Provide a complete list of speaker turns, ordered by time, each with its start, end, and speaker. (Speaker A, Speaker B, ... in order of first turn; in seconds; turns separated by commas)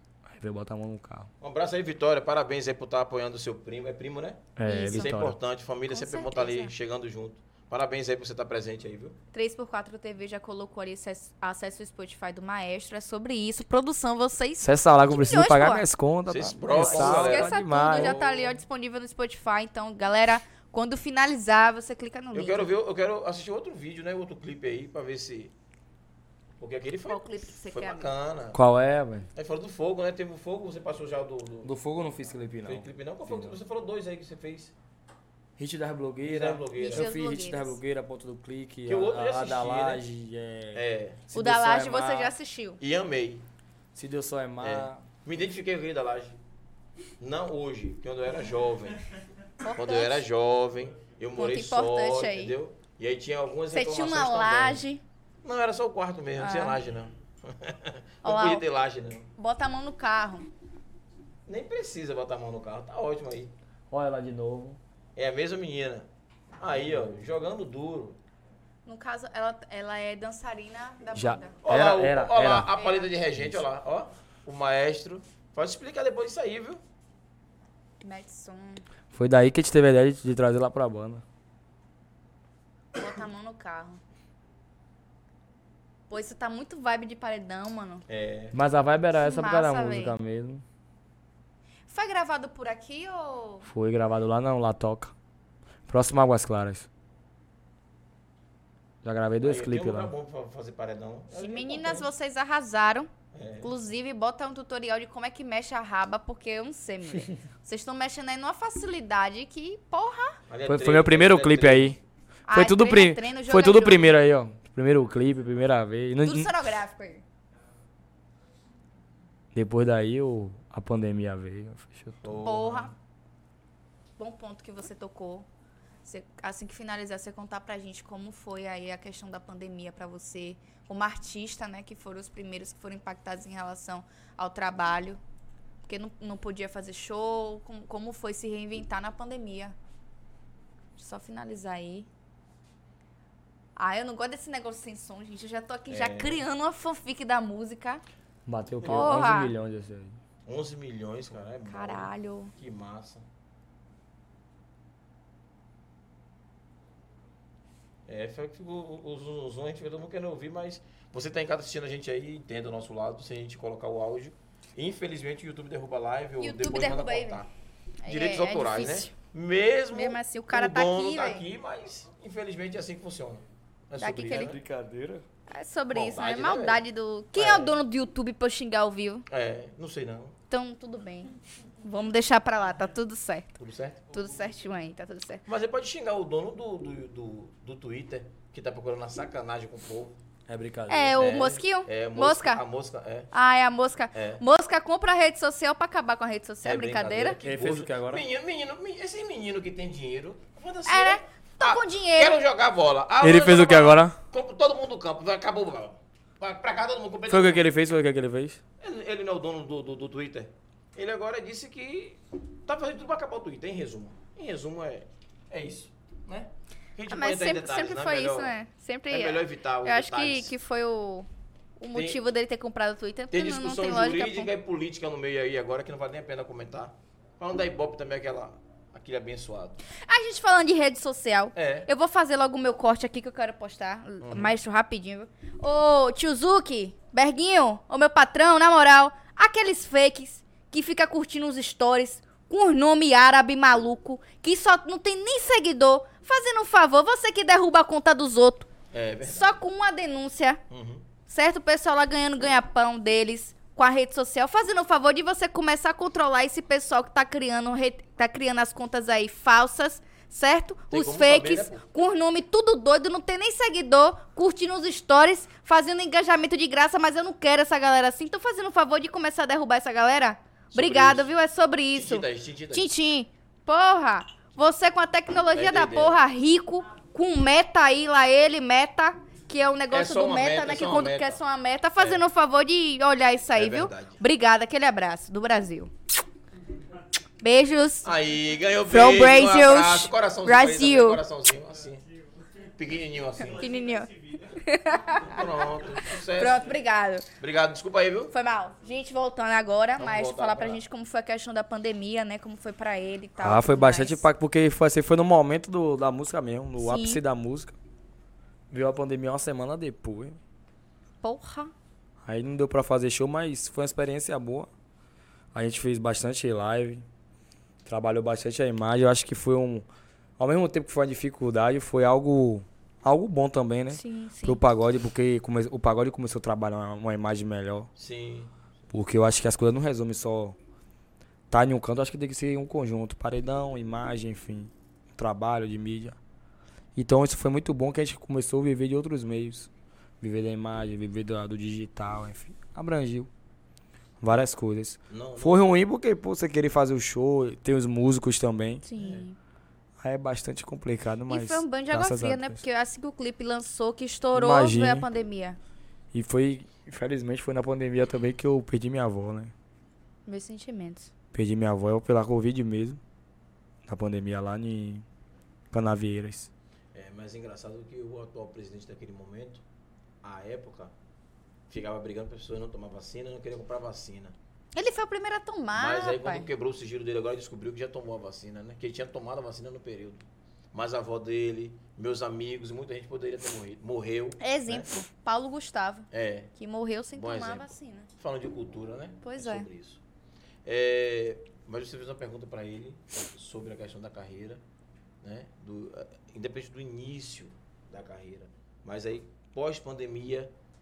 Speaker A: 0.3-1.3, Speaker B: 1.4-9.2, Speaker A: 4.6-5.4, Speaker C: 4.7-5.2, Speaker C: 5.9-6.7, Speaker C: 9.3-15.9, Speaker A: 14.6-18.2, Speaker B: 16.3-18.6, Speaker C: 16.7-22.7, Speaker B: 22.3-25.5, Speaker B: 26.6-28.6, Speaker C: 27.1-28.1, Speaker A: 28.5-29.3, Speaker B: 29.4-31.7, Speaker A: 31.6-33.6, Speaker B: 32.6-34.7, Speaker A: 35.6-42.4, Speaker B: 36.2-37.1, Speaker C: 36.8-37.8, Speaker B: 38.9-40.0, Speaker B: 40.7-41.2, Speaker C: 41.3-42.8, Speaker B: 42.8-43.5, Speaker A: 44.0-45.0, Speaker B: 44.6-46.4, Speaker B: 47.2-49.0, Speaker C: 49.6-50.2, Speaker B: 49.8-54.8, Speaker C: 51.4-52.6, Speaker C: 53.7-55.0, Speaker B: 55.4-59.3, Speaker C: 56.4-56.8, Speaker C: 58.2-58.6, Speaker C: 59.4-60.5, Speaker B: 61.5-63.5, Speaker A: 63.9-64.8, Speaker B: 65.2-66.1, Speaker B: 66.6-68.2, Speaker C: 68.9-71.6, Speaker A: 71.2-72.7, Speaker B: 71.6-76.8, Speaker C: 72.8-73.1, Speaker C: 78.0-78.8, Speaker A: 79.1-81.2, Speaker C: 82.9-84.0, Speaker C: 86.1-88.0, Speaker B: 88.1-88.5, Speaker A: 88.5-90.6, Speaker C: 89.2-90.2, Speaker C: 91.9-93.7, Speaker A: 93.7-95.1, Speaker A: 95.9-96.9, Speaker A: 99.0-100.1, Speaker B: 99.4-102.1, Speaker C: 101.3-103.1, Speaker B: 103.3-103.7, Speaker C: 103.6-110.4, Speaker B: 110.5-112.0, Speaker A: 110.7-112.0, Speaker C: 112.5-114.2, Speaker A: 112.5-116.5, Speaker C: 116.2-117.2, Speaker A: 119.5-122.3, Speaker B: 122.2-122.9, Speaker C: 122.4-122.9, Speaker C: 124.2-125.5, Speaker C: 126.0-135.2, Speaker C: 135.9-139.8, Speaker C: 141.0-142.1, Speaker C: 143.8-148.0, Speaker B: 145.9-146.4, Speaker A: 148.5-150.2, Speaker B: 148.8-149.2, Speaker C: 148.8-149.5, Speaker B: 150.5-153.2, Speaker C: 151.7-152.5, Speaker B: 158.1-167.5, Speaker C: 166.4-167.5, Speaker C: 168.0-169.2, Speaker B: 168.1-174.6, Speaker C: 169.9-171.5, Speaker C: 174.0-174.5, Speaker A: 174.3-175.2, Speaker C: 175.5-179.2, Speaker B: 175.9-176.8, Speaker B: 177.3-177.8, Speaker B: 179.3-180.3, Speaker C: 180.5-183.5, Speaker B: 183.6-184.1, Speaker C: 184.1-185.4, Speaker B: 185.5-190.2, Speaker A: 190.5-191.2, Speaker C: 190.9-192.6, Speaker B: 191.2-193.3, Speaker C: 193.3-197.4, Speaker B: 194.1-194.4, Speaker B: 196.6-207.6, Speaker A: 197.4-198.3, Speaker C: 200.9-202.4, Speaker A: 203.2-204.2, Speaker A: 207.3-208.6, Speaker B: 208.8-218.5, Speaker C: 217.1-221.3, Speaker B: 219.1-220.5, Speaker C: 221.8-224.5, Speaker B: 221.9-222.2, Speaker B: 223.3-229.8, Speaker C: 230.0-248.7, Speaker B: 231.6-231.9, Speaker B: 234.2-234.5, Speaker B: 248.9-249.6, Speaker C: 249.2-250.6, Speaker B: 250.7-251.0, Speaker C: 251.3-285.9, Speaker B: 260.9-261.9, Speaker B: 270.7-271.3, Speaker B: 271.9-272.9, Speaker B: 275.6-276.2, Speaker B: 279.9-281.4, Speaker B: 283.5-284.2, Speaker C: 287.4-288.1, Speaker B: 288.0-292.1, Speaker C: 288.9-291.2, Speaker B: 292.8-293.7, Speaker C: 293.5-295.5, Speaker B: 295.3-296.7, Speaker C: 296.2-297.3, Speaker B: 297.4-298.3, Speaker C: 298.3-304.3, Speaker B: 300.0-300.8, Speaker A: 303.4-307.8, Speaker C: 306.8-307.2, Speaker A: 308.7-310.4, Speaker C: 311.2-311.7, Speaker A: 312.2-314.7, Speaker A: 315.5-317.0, Speaker A: 317.9-319.9, Speaker A: 320.4-327.9, Speaker C: 323.9-324.6, Speaker B: 328.0-328.5, Speaker A: 328.9-330.6, Speaker A: 331.5-336.2, Speaker A: 337.0-339.7, Speaker A: 340.2-343.3, Speaker A: 344.2-348.8, Speaker B: 345.1-345.7, Speaker C: 348.9-349.4, Speaker B: 349.0-349.2, Speaker A: 350.0-352.6, Speaker C: 351.3-355.6, Speaker A: 354.4-355.1, Speaker A: 356.1-359.5, Speaker C: 360.3-361.1, Speaker A: 361.3-363.0, Speaker A: 363.9-365.1, Speaker A: 365.7-366.5, Speaker B: 366.9-369.6, Speaker B: 370.2-370.9, Speaker B: 371.7-374.4, Speaker C: 374.8-376.5, Speaker B: 375.8-384.9, Speaker C: 384.4-388.1, Speaker B: 386.1-386.5, Speaker B: 387.1-390.0, Speaker C: 389.2-389.7, Speaker B: 390.7-394.6, Speaker B: 395.2-400.5